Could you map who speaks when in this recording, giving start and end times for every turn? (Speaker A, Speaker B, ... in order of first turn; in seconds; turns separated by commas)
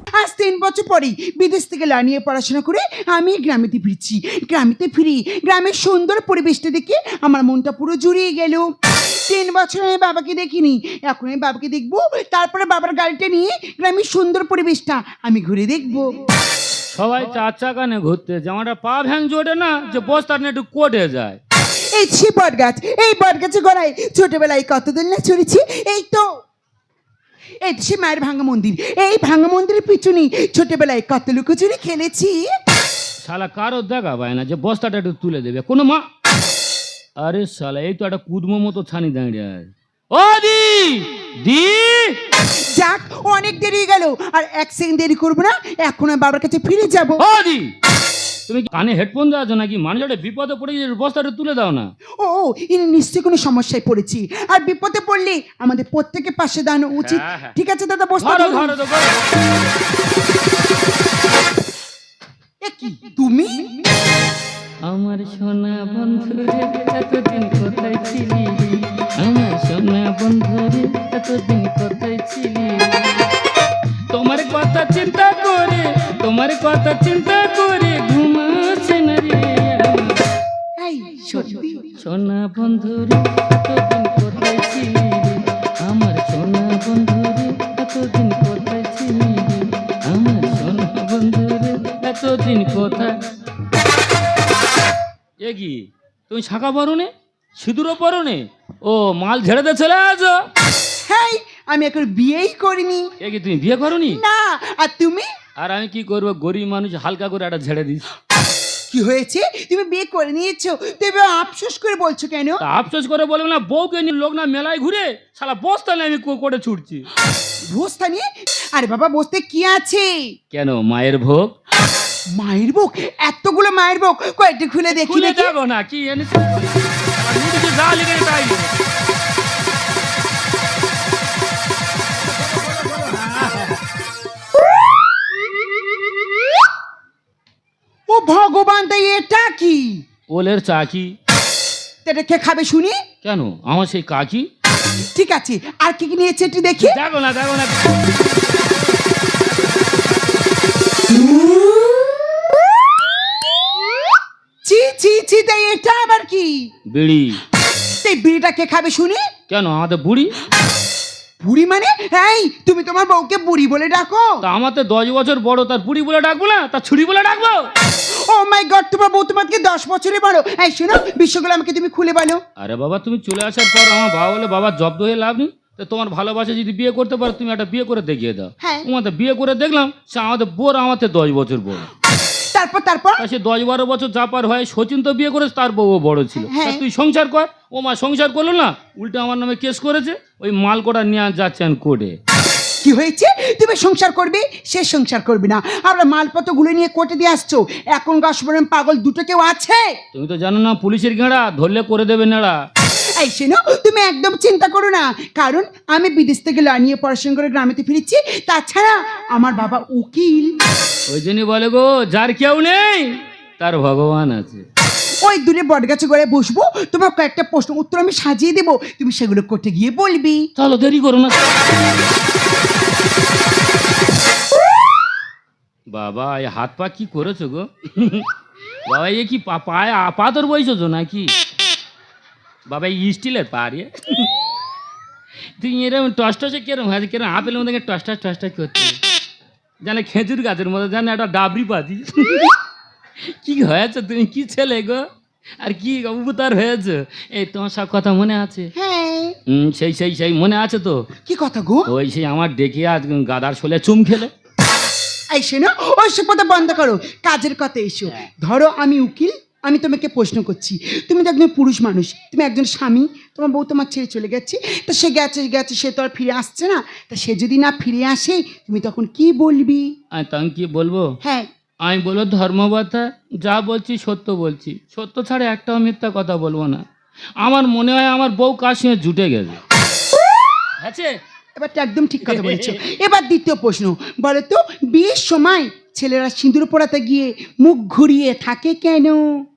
Speaker A: 0.2-8.7, Speaker A: 9.2-16.2, Speaker B: 16.9-21.4, Speaker A: 21.9-26.3, Speaker A: 27.6-32.5, Speaker B: 33.2-36.1, Speaker B: 37.2-42.2, Speaker A: 42.7-47.2, Speaker B: 47.2-47.7, Speaker B: 48.5-51.9, Speaker A: 52.2-58.8, Speaker B: 57.0-57.5, Speaker B: 58.2-59.1, Speaker A: 62.6-63.8, Speaker B: 64.8-73.2, Speaker B: 74.1-80.2, Speaker A: 80.8-81.9, Speaker B: 82.0-93.3, Speaker B: 95.4-100.4, Speaker A: 101.1-103.1, Speaker B: 103.2-104.2, Speaker A: 104.1-105.3, Speaker B: 105.6-108.1, Speaker A: 108.9-112.6, Speaker B: 112.6-117.1, Speaker A: 117.7-120.3, Speaker B: 120.5-121.5, Speaker A: 122.3-125.5, Speaker B: 124.9-128.7, Speaker B: 133.0-133.7, Speaker A: 138.1-140.0, Speaker B: 140.3-141.1, Speaker A: 142.1-143.0, Speaker B: 143.2-144.5, Speaker A: 145.2-147.0, Speaker B: 146.8-148.1, Speaker A: 154.6-156.7, Speaker B: 156.9-157.4, Speaker A: 158.0-159.3, Speaker B: 159.5-160.3, Speaker A: 161.4-164.4, Speaker B: 164.4-167.7, Speaker A: 168.1-172.4, Speaker B: 172.6-181.9, Speaker A: 182.5-183.2, Speaker B: 183.2-192.2, Speaker A: 186.5-186.8, Speaker A: 192.8-200.0, Speaker B: 200.1-202.6, Speaker A: 203.2-210.6, Speaker B: 211.1-214.7, Speaker A: 215.2-220.5, Speaker B: 220.6-221.6, Speaker B: 225.9-228.3, Speaker B: 228.9-231.3, Speaker B: 232.7-234.3, Speaker B: 235.6-239.0, Speaker B: 239.8-242.5, Speaker B: 243.2-245.1, Speaker B: 245.6-248.7, Speaker A: 248.8-249.4, Speaker B: 249.5-251.1, Speaker A: 251.3-251.9, Speaker B: 251.9-254.3, Speaker A: 255.3-269.9, Speaker B: 270.1-271.2, Speaker A: 271.2-271.5, Speaker B: 271.8-276.8, Speaker B: 277.4-279.6, Speaker B: 280.8-281.2, Speaker A: 281.6-289.4, Speaker B: 282.3-282.8